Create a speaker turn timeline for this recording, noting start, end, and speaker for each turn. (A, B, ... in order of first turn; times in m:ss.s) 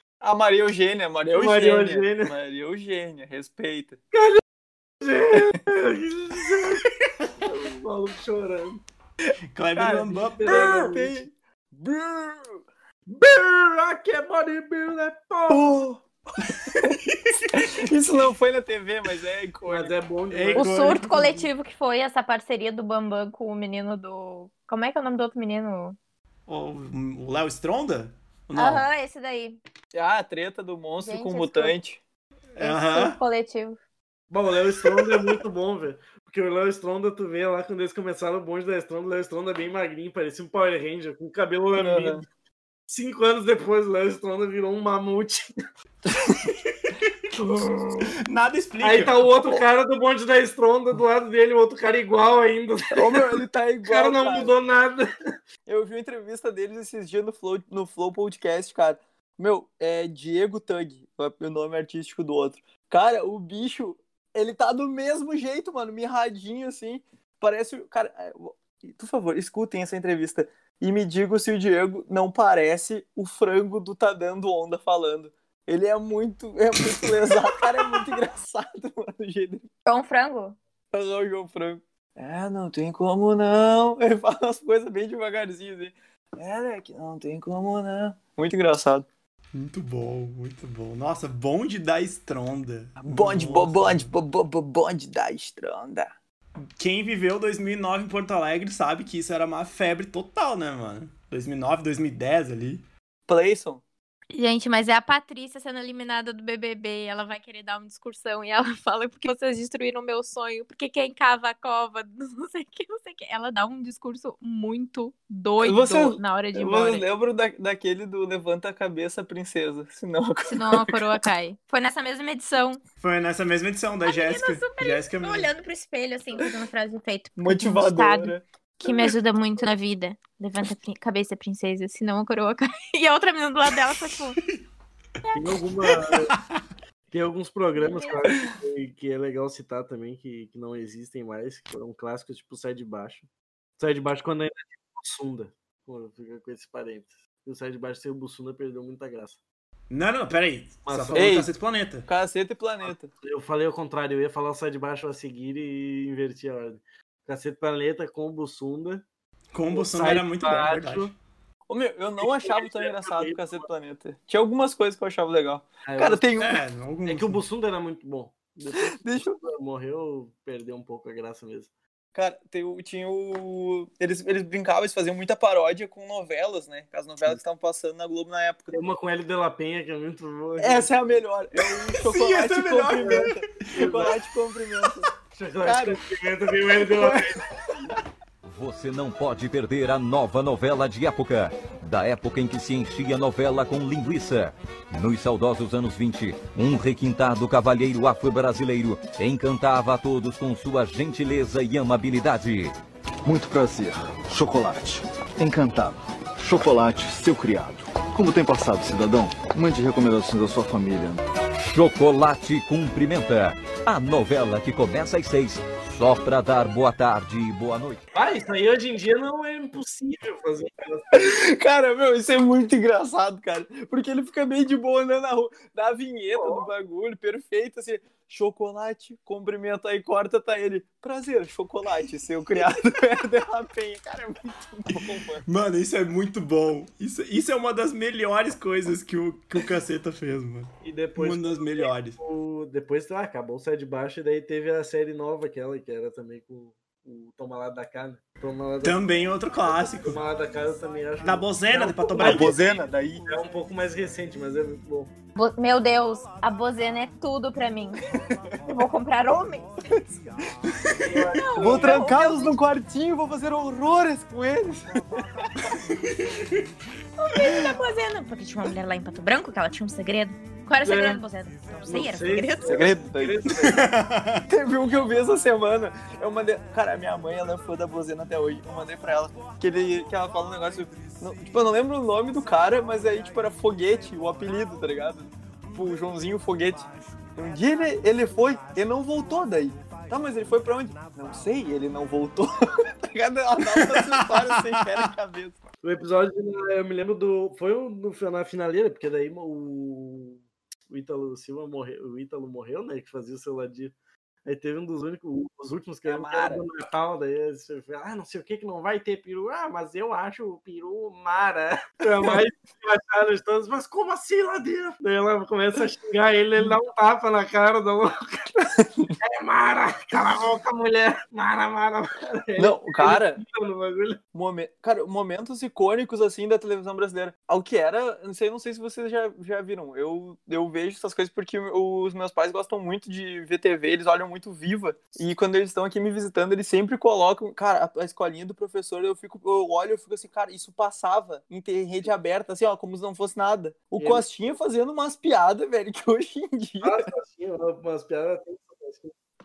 0:00.2-0:04.0 A
0:01.3-0:02.3 B
0:04.1-0:04.4 B
0:05.0-0:06.8 B
0:07.4-0:08.8 B
0:09.5-0:10.7 C
0:09.8-0:12.6 A
0:10.3-0:11.2 B
0:13.1-0:15.8 B
0:15.5-0:17.0 A
0:17.5-0:19.9 A
0:19.7-0:20.8 B
0:20.3-0:21.5 C
0:20.6-0:26.0 D
0:26.5-0:28.8 C
0:28.6-0:29.6 D
0:29.9-0:32.0 A
0:31.0-0:31.8 D
0:32.5-0:33.2 C
0:32.6-0:33.8 D
0:34.3-0:42.2 B
0:41.8-0:42.2 A
0:42.9-0:45.5 B
0:46.0-0:46.3 A
0:47.4-0:47.8 B
0:48.2-0:49.3 C
0:48.8-0:55.1 B
0:52.9-0:54.5 A
0:55.6-1:19.7 A
1:19.8-1:20.6 D
1:20.9-1:29.0 A
1:29.5-1:34.1 C
1:33.0-1:36.1 A
1:36.8-1:42.8 C
1:43.3-1:43.8 A
1:44.3-1:57.0 D
1:55.6-2:01.0 A
2:00.5-2:02.8 D
2:03.0-2:05.5 C
2:04.0-2:08.3 D
2:07.4-2:09.1 A
2:08.8-2:14.4 D
2:15.3-2:16.3 B
2:16.3-2:16.6 C
2:17.1-2:23.3 B
2:17.8-2:18.2 D
2:23.8-2:29.4 B
2:29.9-2:32.1 C
2:30.8-2:31.3 B
2:31.1-2:31.5 A
2:32.0-2:33.1 A
2:32.9-2:39.0 B
2:39.5-2:41.1 C
2:39.7-2:41.1 B
2:41.7-2:46.5 A
2:42.2-2:43.7 B
2:45.8-2:46.2 B
2:46.4-2:47.4 C
2:47.0-2:51.7 B
2:48.9-2:49.4 A
2:52.1-2:58.8 A
2:58.7-3:01.2 B
3:00.6-3:05.1 A
3:02.0-3:03.4 C
3:02.9-3:04.1 B
3:05.3-3:07.4 B
3:05.6-3:06.0 A
3:06.7-3:07.2 A
3:08.4-3:22.7 E
3:23.2-3:31.2 F
3:31.6-3:38.0 E
3:38.1-3:41.3 B
3:41.1-3:55.4 A
3:46.3-3:46.7 B
3:55.4-4:02.2 C
4:00.8-4:09.0 B
4:08.8-4:10.2 C
4:09.6-4:15.1 B
4:11.2-4:12.6 C
4:12.2-4:13.3 A
4:15.4-4:18.0 D
4:18.7-4:19.7 D
4:21.0-4:22.0 B
4:21.4-4:22.6 D
4:21.6-4:25.4 A
4:25.9-4:26.6 C
4:27.2-4:32.8 D
4:30.8-4:31.2 B
4:31.9-4:33.8 B
4:32.6-4:33.4 A
4:33.6-4:34.4 C
4:34.5-4:52.5 A
4:53.1-4:55.6 A
4:53.8-4:55.0 C
4:55.8-5:03.9 B
5:04.4-5:18.4 B
5:06.1-5:06.6 A
5:18.6-5:19.1 A
5:19.2-5:24.2 B
5:22.6-5:23.4 A
5:24.3-5:47.0 A
5:44.0-5:44.2 B
5:46.8-5:49.1 B